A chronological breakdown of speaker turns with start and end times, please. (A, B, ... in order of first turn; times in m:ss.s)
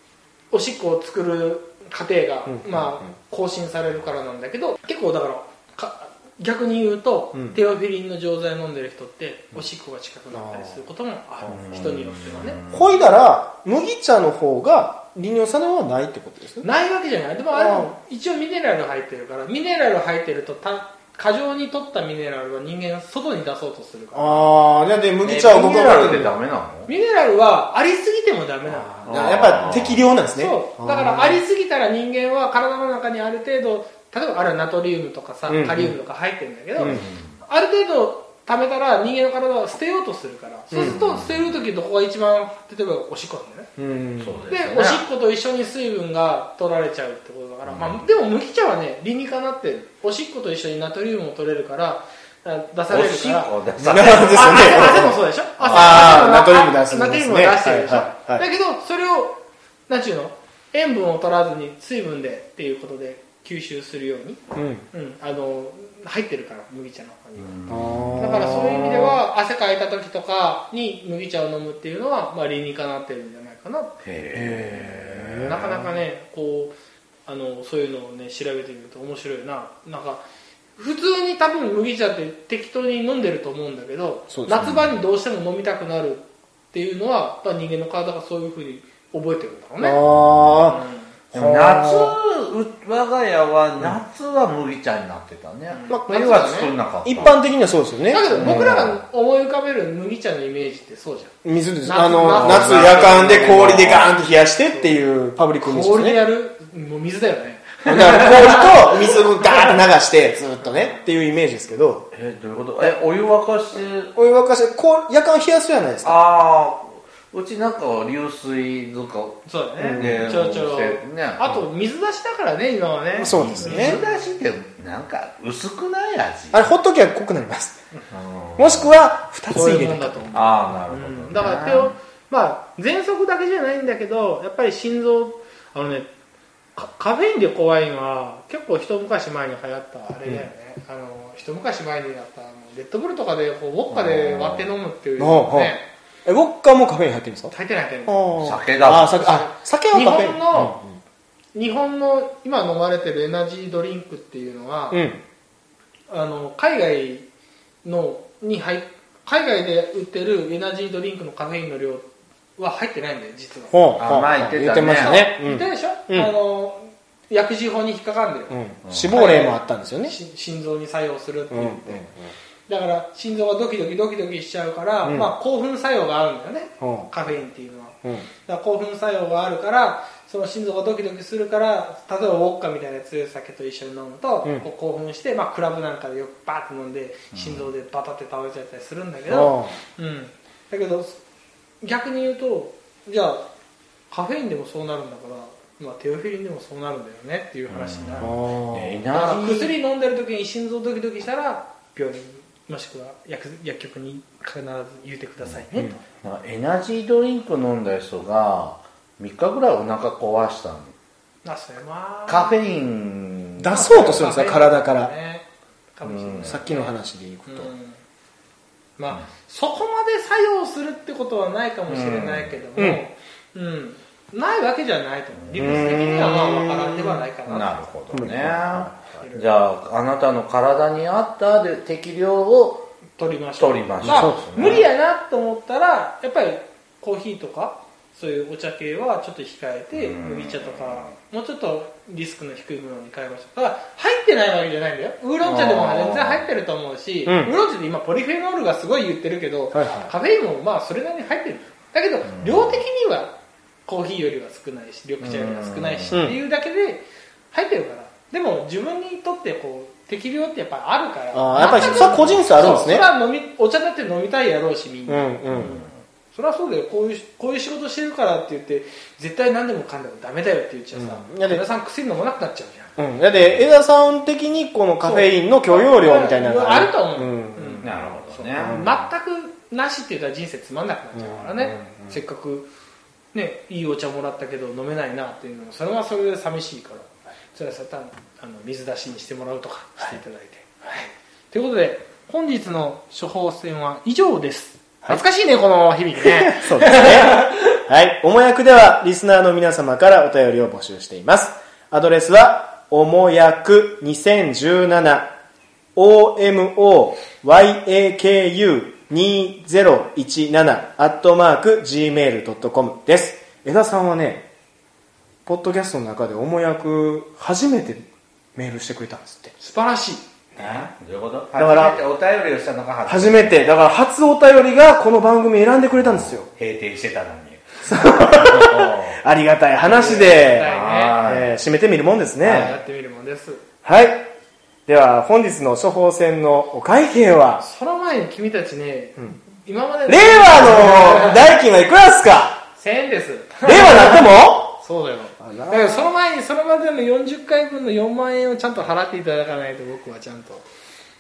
0:00.5-0:12.6 A
0:02.5-0:03.1 B
0:10.3-0:10.8 B
0:11.5-0:12.9 C
0:12.7-0:16.6 B
0:16.6-0:24.5 A
0:17.5-0:17.9 B
0:24.1-0:26.4 B
0:25.2-0:26.9 C
0:26.9-0:29.8 A
0:28.7-0:31.4 B
0:29.1-0:30.0 C
0:30.3-0:43.7 A
0:35.5-0:36.0 B
0:36.8-0:37.0 B
0:36.8-0:37.3 C
0:40.7-0:41.0 B
0:40.7-0:41.6 C
0:43.8-0:44.4 B
0:44.2-0:45.0 C
0:44.5-1:04.4 A
0:47.6-0:48.1 C
0:52.9-0:56.2 C
0:53.8-0:58.4 B
1:04.6-1:04.8 B
1:04.9-1:13.9 A
1:07.4-1:08.1 C
1:07.7-1:09.2 B
1:14.0-1:15.8 C
1:14.3-1:15.7 B
1:15.4-1:20.2 A
1:20.8-1:30.0 A
1:24.3-1:24.8 B
1:29.8-1:30.8 B
1:30.1-1:30.6 C
1:30.7-1:31.1 A
1:31.3-1:37.4 C
1:31.3-1:32.2 B
1:35.7-1:36.7 A
1:35.9-1:36.4 B
1:37.0-1:38.8 B
1:38.1-1:41.3 A
1:38.3-1:39.0 C
1:41.4-1:46.2 B
1:41.8-1:43.8 A
1:42.3-1:44.1 C
1:45.6-1:49.8 A
1:47.8-1:52.1 B
1:52.1-1:54.1 C
1:54.2-1:56.2 B
1:56.0-2:01.6 C
1:59.5-2:04.3 A
1:59.8-2:00.4 B
2:03.2-2:04.0 B
2:03.2-2:06.7 C
2:06.5-2:07.8 B
2:08.1-2:08.9 C
2:08.6-2:10.3 B
2:09.5-2:16.1 A
2:10.3-2:11.9 C
2:16.8-2:25.9 A
2:23.9-2:24.7 C
2:25.2-2:27.5 B
2:27.5-2:30.8 A
2:28.1-2:31.0 B
2:28.4-2:29.2 C
2:31.6-2:35.0 A
2:34.9-2:35.2 B
2:36.1-2:37.3 A
2:37.8-2:48.6 A
2:43.7-2:46.3 B
2:44.0-2:45.2 C
2:48.5-2:50.2 B
2:49.1-2:52.1 A
2:51.5-2:52.3 B
2:52.7-3:11.2 A
2:55.0-2:55.3 B
2:56.8-2:57.1 B
3:07.3-3:07.7 C
3:09.3-3:09.8 B
3:11.8-3:13.4 A
3:14.1-3:18.3 A
3:17.7-3:19.7 C
3:18.2-3:19.0 B
3:19.1-3:26.0 A
3:26.2-3:30.9 C
3:31.4-3:32.6 A
3:32.3-3:34.2 C
3:33.6-3:35.1 B
3:33.7-3:38.0 A
3:36.0-3:36.6 C
3:36.4-3:37.7 B
3:39.0-3:47.8 A
3:41.9-3:42.6 C
3:45.4-3:46.0 C
3:45.6-3:47.3 B
3:47.5-3:52.9 C
3:48.1-3:49.0 B
3:49.2-3:49.5 A
3:53.2-4:13.3 A
3:53.6-3:54.8 C
3:54.0-3:54.8 B
3:59.9-4:01.1 C
4:05.4-4:06.4 C
4:07.3-4:07.5 B
4:09.7-4:10.1 B
4:12.3-4:12.8 C
4:13.9-4:32.9 A
4:15.2-4:16.3 C
4:16.1-4:16.4 B
4:21.3-4:23.1 B
4:21.6-4:22.5 C
4:25.1-4:25.8 B
4:25.5-4:25.8 C
4:30.9-4:31.6 B
4:33.0-4:37.9 B
4:35.0-4:42.7 A
4:37.8-4:38.9 C
4:38.6-4:39.0 B
4:41.1-4:42.2 B
4:43.3-4:57.6 A
4:56.2-5:05.3 B
5:06.0-5:14.5 B
5:15.5-5:19.5 B
5:19.6-5:20.2 A
5:20.6-5:20.9 B
5:20.6-5:23.6 C
5:21.6-5:22.0 B
5:23.0-5:26.5 B
5:25.9-5:27.6 C
5:27.8-5:32.8 B
5:28.4-5:29.2 C
5:29.8-5:31.2 A
5:30.5-5:31.5 C
5:32.4-5:33.6 A
5:33.8-5:34.3 B
5:34.9-5:37.6 B
5:37.6-5:41.5 A
5:40.1-5:42.6 B
5:42.8-5:50.6 A
5:43.7-5:44.8 B
5:45.4-5:46.1 B